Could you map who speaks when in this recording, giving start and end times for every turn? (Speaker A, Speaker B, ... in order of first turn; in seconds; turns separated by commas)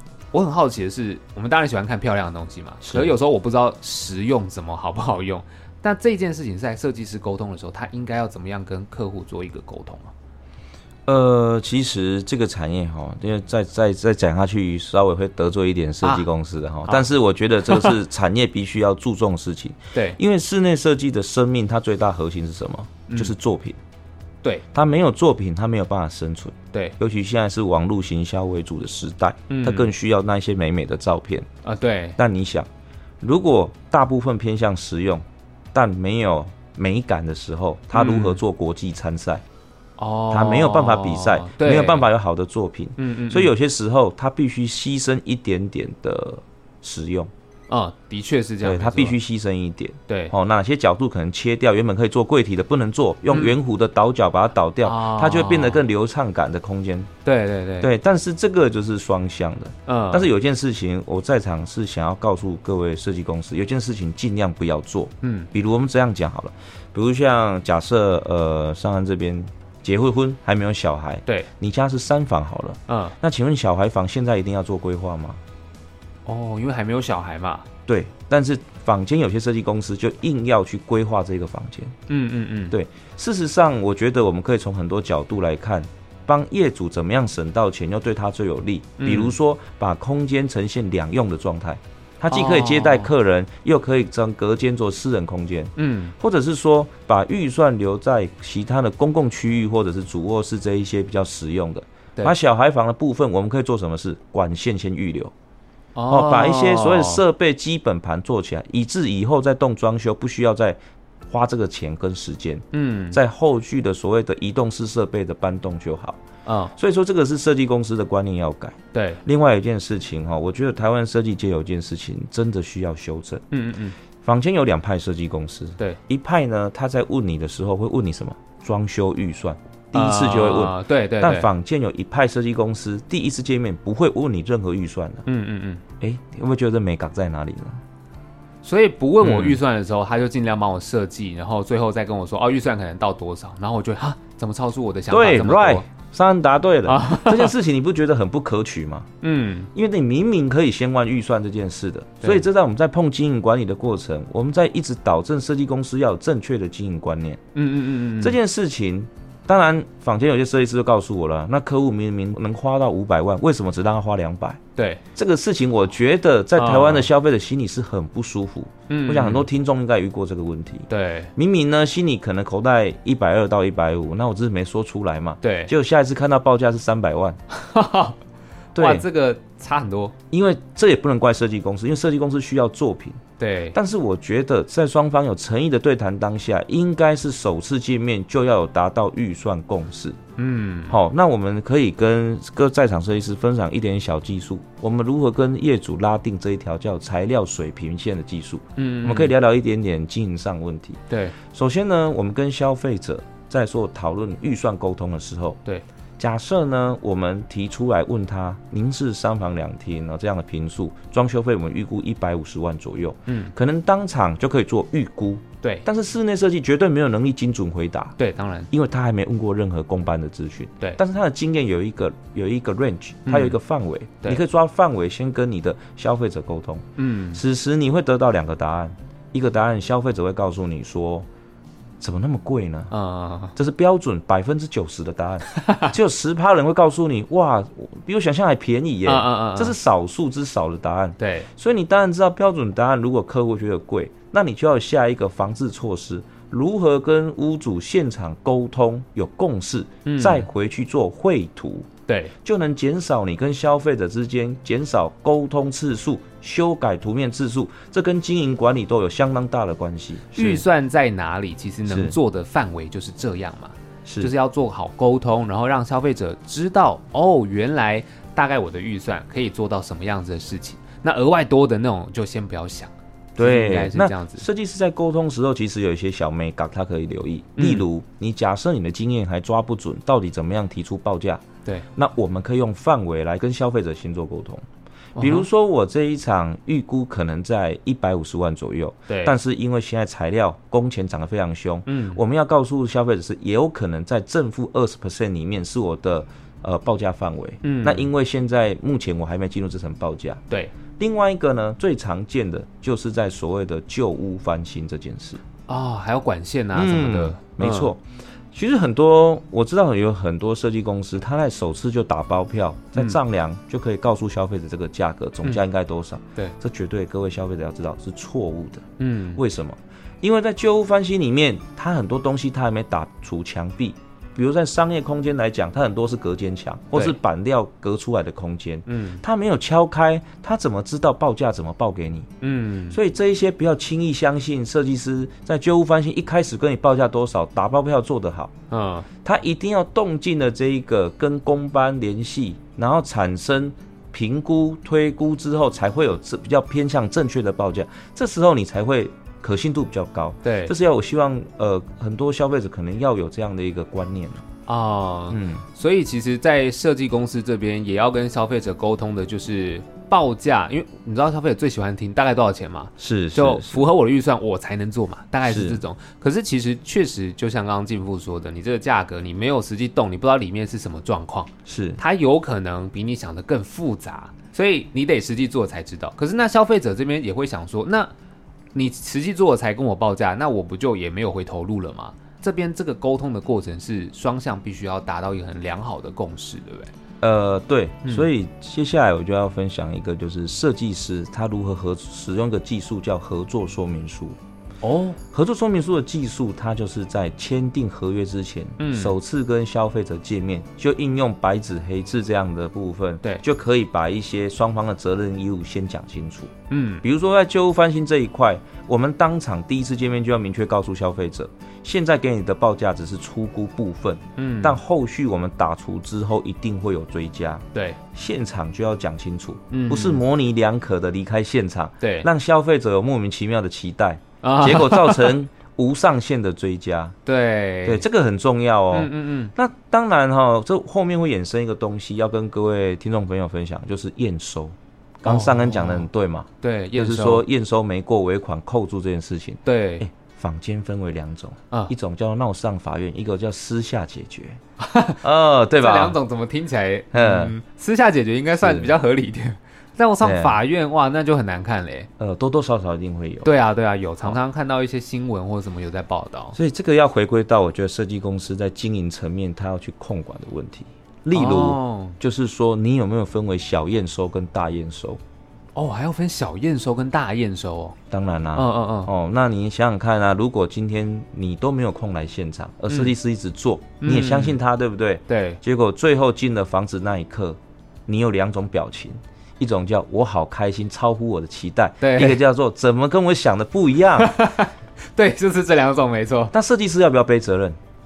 Speaker A: 0.3-10.1, Speaker B: 2.8-3.1, Speaker B: 11.1-23.8, Speaker A: 16.0-16.3, Speaker A: 17.6-18.0, Speaker A: 19.9-20.2, Speaker A: 23.1-23.3, Speaker B: 24.7-31.5, Speaker A: 29.5-29.9, Speaker A: 31.6-32.2, Speaker B: 32.2-32.7, Speaker B: 33.2-39.4, Speaker A: 37.9-38.4, Speaker A: 40.0-42.1, Speaker B: 40.3-47.3, Speaker A: 43.0-43.5, Speaker A: 47.7-49.2, Speaker B: 48.6-57.1, Speaker A: 50.1-50.3, Speaker A: 53.3-53.5, Speaker A: 54.8-55.8, Speaker A: 57.2-57.9, Speaker B: 57.8-75.4, Speaker A: 59.9-60.3, Speaker A: 65.2-65.5, Speaker A: 72.9-73.2, Speaker A: 76.2-77.7, Speaker B: 77.9-81.9, Speaker A: 82.1-82.8, Speaker B: 82.7-105.3, Speaker A: 89.0-89.3, Speaker A: 92.3-93.1, Speaker A: 95.8-96.1, Speaker A: 106.0-107.2, Speaker B: 106.1-116.2, Speaker A: 112.7-113.2, Speaker A: 116.5-116.7, Speaker B: 116.8-123.4, Speaker A: 118.9-119.2, Speaker A: 123.5-124.0, Speaker B: 124.2-135.2, Speaker A: 129.9-131.5, Speaker A: 135.2-135.8, Speaker B: 136.0-137.8, Speaker A: 138.6-145.8, Speaker B: 139.2-139.6, Speaker B: 145.1-149.1, Speaker A: 146.9-147.5, Speaker A: 149.2-149.7, Speaker B: 149.7-157.4, Speaker A: 157.5-158.4, Speaker B: 158.2-164.6, Speaker A: 164.8-165.0, Speaker B: 165.1-177.4, Speaker A: 166.6-167.1, Speaker A: 168.9-169.5, Speaker A: 170.9-171.3, Speaker A: 175.4-175.7, Speaker A: 177.5-178.2, Speaker B: 178.7-179.0, Speaker A: 178.8-180.1, Speaker B: 180.3-183.2, Speaker A: 183.4-183.8, Speaker B: 183.7-190.2, Speaker A: 190.4-191.0, Speaker B: 190.9-205.6, Speaker A: 198.8-199.3, Speaker A: 201.1-201.3, Speaker B: 206.2-218.1, Speaker A: 213.3-213.5, Speaker A: 218.2-218.7, Speaker B: 218.7-231.3, Speaker A: 223.2-223.6, Speaker A: 227.0-227.4, Speaker B: 232.0-232.9, Speaker A: 232.9-233.5, Speaker B: 233.6-251.9, Speaker A: 235.5-235.9, Speaker A: 239.0-239.7, Speaker A: 241.2-241.5, Speaker A: 250.0-250.5, Speaker A: 252.1-252.3, Speaker B: 252.4-260.6, Speaker A: 260.3-274.4, Speaker B: 261.9-262.1, Speaker B: 264.1-264.3, Speaker B: 273.4-281.4, Speaker A: 277.6-277.8, Speaker B: 281.9-284.6, Speaker A: 285.1-285.5, Speaker B: 285.2-300.4, Speaker A: 289.1-289.3, Speaker A: 291.9-292.2, Speaker A: 297.6-298.1, Speaker B: 300.9-305.4, Speaker A: 305.7-307.9, Speaker B: 306.7-332.3, Speaker A: 319.0-319.4, Speaker A: 328.9-329.2, Speaker A: 332.4-333.0, Speaker B: 332.9-338.5, Speaker A: 338.7-339.1, Speaker B: 339.2-354.4, Speaker A: 350.4-350.7, Speaker A: 354.7-378.1, Speaker B: 355.3-355.6, Speaker B: 363.0-363.8, Speaker B: 365.4-365.8, Speaker B: 371.6-372.0, Speaker A: 378.7-386.9, Speaker B: 387.2-394.4, Speaker A: 394.8-395.2, Speaker B: 395.3-427.1, Speaker A: 398.8-399.1, Speaker A: 406.7-407.0, Speaker A: 414.4-414.8, Speaker A: 417.7-418.0, Speaker A: 419.7-420.2, Speaker A: 422.0-422.3, Speaker A: 424.4-425.3, Speaker A: 427.2-428.0, Speaker B: 427.8-444.6, Speaker A: 428.9-429.5, Speaker A: 435.2-436.1, Speaker A: 436.6-437.4, Speaker A: 439.6-440.1, Speaker A: 444.8-445.2, Speaker B: 445.2-446.2, Speaker A: 445.8-452.1, Speaker B: 447.1-447.5, Speaker B: 448.6-448.9, Speaker B: 450.2-450.6, Speaker B: 452.2-453.5, Speaker A: 453.4-456.6, Speaker B: 456.5-465.2, Speaker A: 461.3-462.2, Speaker A: 465.8-468.0, Speaker B: 468.1-484.3, Speaker A: 468.5-469.1, Speaker A: 474.0-474.6, Speaker A: 475.3-475.6, Speaker A: 482.0-482.4, Speaker A: 484.2-486.5, Speaker B: 486.5-487.8